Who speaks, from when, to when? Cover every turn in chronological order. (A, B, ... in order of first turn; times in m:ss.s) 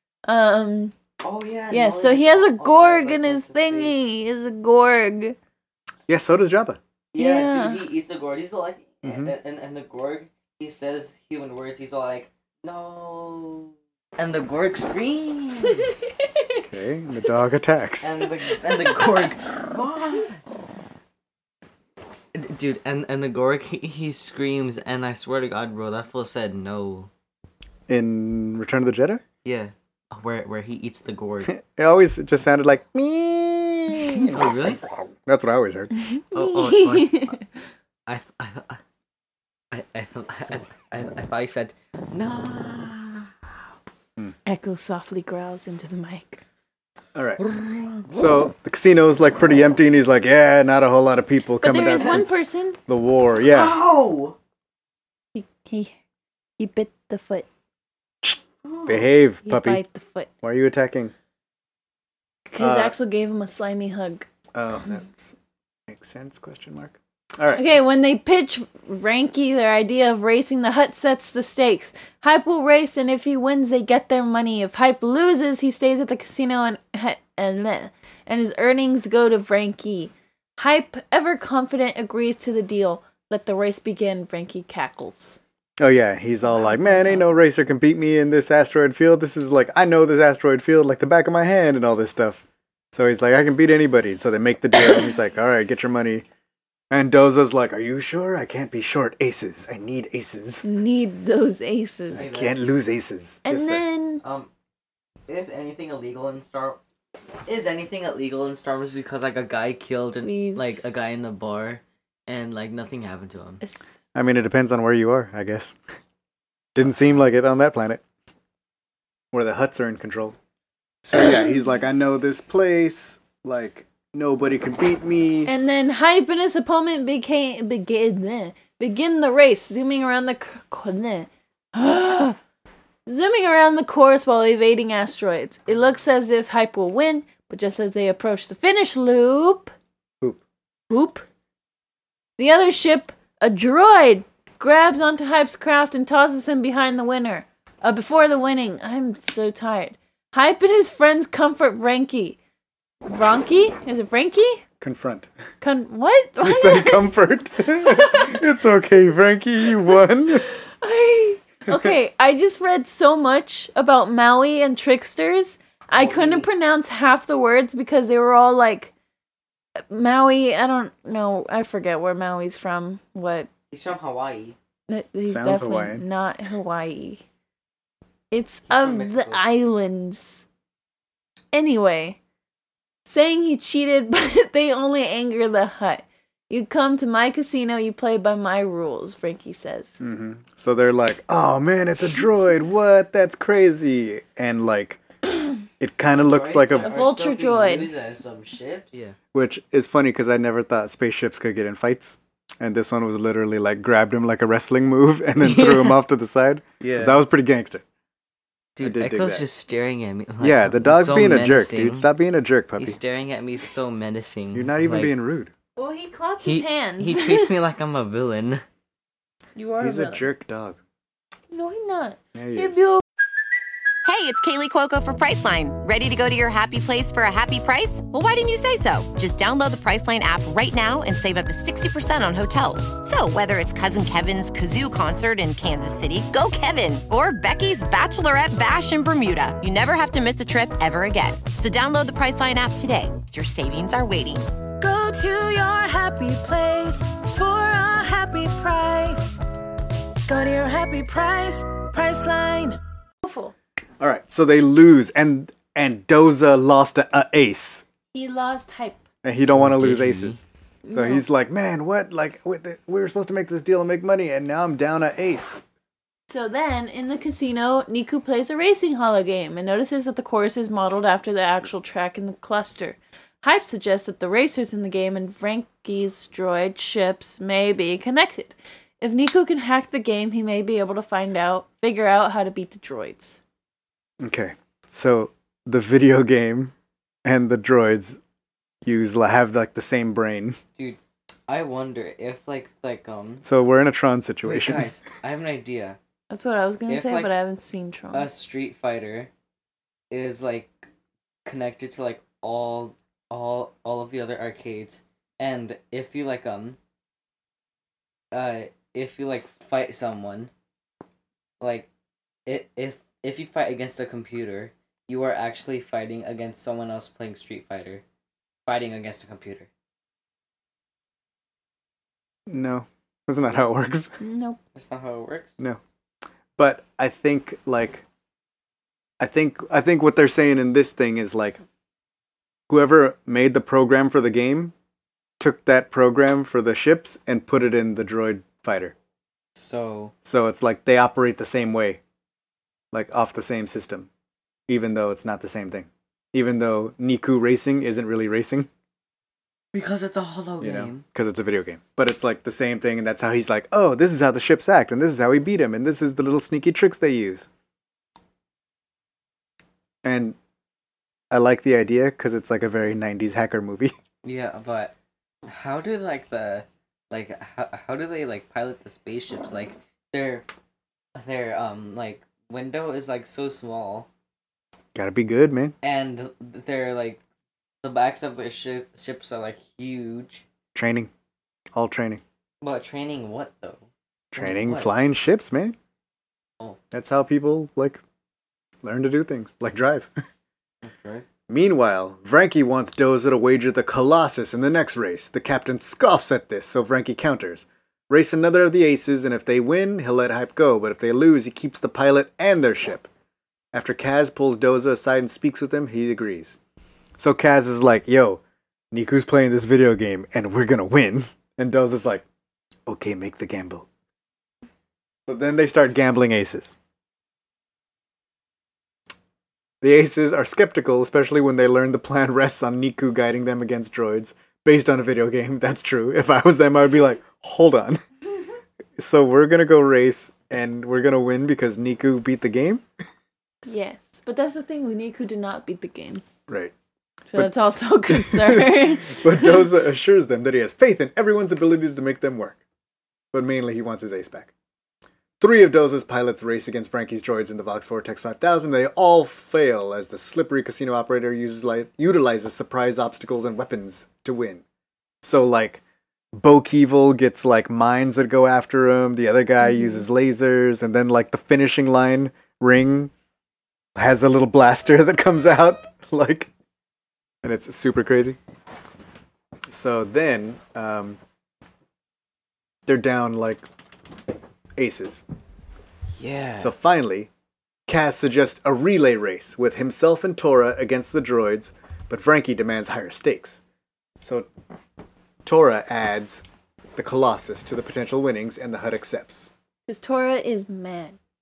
0:00.2-0:00.9 A
0:01.2-0:04.0 B
0:01.7-0:05.4 A
0:06.1-0:06.8 C
0:07.1-0:16.0 B
0:07.2-0:07.8 A
0:09.0-0:09.3 C
0:15.8-0:16.6 A
0:16.6-0:18.2 C
0:18.0-0:20.4 B
0:22.3-0:27.1 B
0:27.9-0:29.2 C
0:29.4-0:31.5 B
0:31.4-0:35.9 C
0:34.3-0:34.8 B
0:36.0-0:37.4 A
0:36.3-0:37.3 B
0:38.1-0:38.8 B
0:39.7-0:43.3 B
0:44.4-0:46.4 A
0:47.1-0:47.4 C
0:47.4-0:48.3 B
0:48.1-0:53.8 C
0:51.6-0:52.8 A
0:52.0-0:52.2 B
0:53.4-0:54.4 B
0:55.3-0:56.0 A
0:56.6-0:57.4 A
0:58.2-0:59.8 C
0:58.6-0:59.0 B
0:59.4-1:00.3 A
1:00.4-1:01.1 C
1:02.5-1:04.3 A
1:02.6-1:02.9 C
1:04.5-1:05.3 C
1:05.9-1:07.6 C
1:07.5-1:25.4 A
1:25.8-1:36.2 C
1:26.4-1:27.2 A
1:36.9-1:40.6 C
1:40.6-1:42.3 A
1:42.1-1:43.8 C
1:42.2-1:42.6 B
1:43.4-1:44.2 A
1:44.2-1:44.5 B
1:45.3-1:46.8 B
1:47.4-1:53.6 B
1:50.2-1:50.8 A
1:53.6-1:53.9 A
1:54.1-1:55.8 C
1:56.7-1:58.0 C
1:59.3-2:00.4 C
2:01.0-2:05.5 C
2:05.4-2:12.4 A
2:13.0-2:19.7 A
2:20.9-2:21.2 A
2:22.4-2:32.4 A
2:33.0-2:34.6 A
2:34.8-2:35.3 C
2:35.6-2:37.1 A
2:36.4-2:40.4 C
2:37.8-2:38.4 A
2:40.5-2:48.9 A
2:45.9-2:46.5 B
2:49.8-2:53.5 A
2:53.7-2:54.6 B
2:54.9-2:57.2 A
2:55.2-2:56.0 C
2:58.3-3:00.4 A
2:58.7-2:59.4 B
3:01.5-3:02.2 A
3:03.0-3:10.0 A
3:10.0-3:15.0 C
3:15.8-3:17.0 C
3:16.2-3:19.2 B
3:16.8-3:17.9 A
3:19.3-3:27.8 C
3:25.4-3:26.0 B
3:26.8-3:27.2 B
3:28.8-3:32.1 B
3:28.8-3:29.4 C
3:30.4-3:33.0 C
3:32.8-3:35.1 B
3:34.5-3:35.5 C
3:35.8-3:37.5 A
3:36.4-3:38.6 B
3:39.6-3:40.3 A
3:39.8-3:40.8 C
3:41.5-3:43.0 A
3:42.3-3:42.8 C
3:44.0-4:04.5 D
4:04.8-4:09.4 E
4:10.3-4:12.8 E
4:13.2-4:13.5 A
4:14.0-4:17.8 C
4:18.1-4:19.0 A
4:19.2-4:25.6 C
4:19.5-4:20.4 B
4:20.8-4:21.2 A
4:26.3-4:43.4 A
4:44.2-4:46.7 C
4:47.2-4:48.2 C
4:48.8-4:50.6 C
4:50.8-4:53.4 B
4:53.4-4:54.9 C
4:54.4-4:56.0 B
4:56.3-4:58.3 A
4:56.9-4:57.3 B
4:58.1-4:59.3 B
5:00.1-5:00.7 B
5:01.4-5:06.8 B
5:08.3-5:10.5 B
5:11.6-5:11.9 B
5:12.4-5:18.0 B
5:18.6-5:19.7 B
5:22.5-5:24.2 C
5:24.2-5:24.6 A
5:24.7-5:25.5 B
5:26.6-5:28.0 C
5:29.2-5:31.6 C
5:32.7-5:34.7 C
5:35.4-5:38.9 C
5:39.6-5:40.1 B
5:40.2-5:42.0 C
5:42.9-5:44.1 C
5:44.7-5:48.7 C
5:49.7-5:51.0 B
5:50.6-5:57.5 C
6:00.0-6:00.4 C
6:01.3-6:03.9 C
6:04.2-6:04.9 B
6:05.4-6:10.4 B
6:11.2-6:14.1 B
6:14.9-6:15.7 C
6:15.8-6:17.2 B
6:17.8-6:20.4 B
6:20.7-6:21.1 C
6:21.7-6:22.2 C
6:22.6-6:24.9 B
6:24.3-6:25.8 C
6:26.9-6:28.0 C
6:28.8-6:30.1 C
6:30.8-6:31.2 B
6:31.5-6:43.1 C
6:43.7-6:46.6 C
6:47.2-6:48.4 C
6:48.9-6:52.2 C
6:52.9-6:53.9 C
6:55.2-6:56.7 C
6:59.8-7:08.0 C
7:09.0-7:12.8 C
7:13.6-7:16.2 A
7:16.5-7:16.7 C
7:17.3-7:19.7 A
7:18.1-7:22.6 C
7:23.3-7:24.5 C
7:25.4-7:34.6 C
7:35.2-7:35.8 C
7:36.3-7:43.1 C
7:39.6-7:40.0 A
7:44.0-7:46.5 C
7:47.4-7:48.4 C
7:49.7-7:51.2 C
7:52.8-7:53.6 C
7:54.8-7:55.2 C
7:56.2-7:56.7 B
7:56.6-7:57.3 C
7:57.9-8:03.6 C
8:04.2-8:04.5 C
8:05.4-8:06.4 C
8:07.0-8:09.5 C
8:09.9-8:11.2 A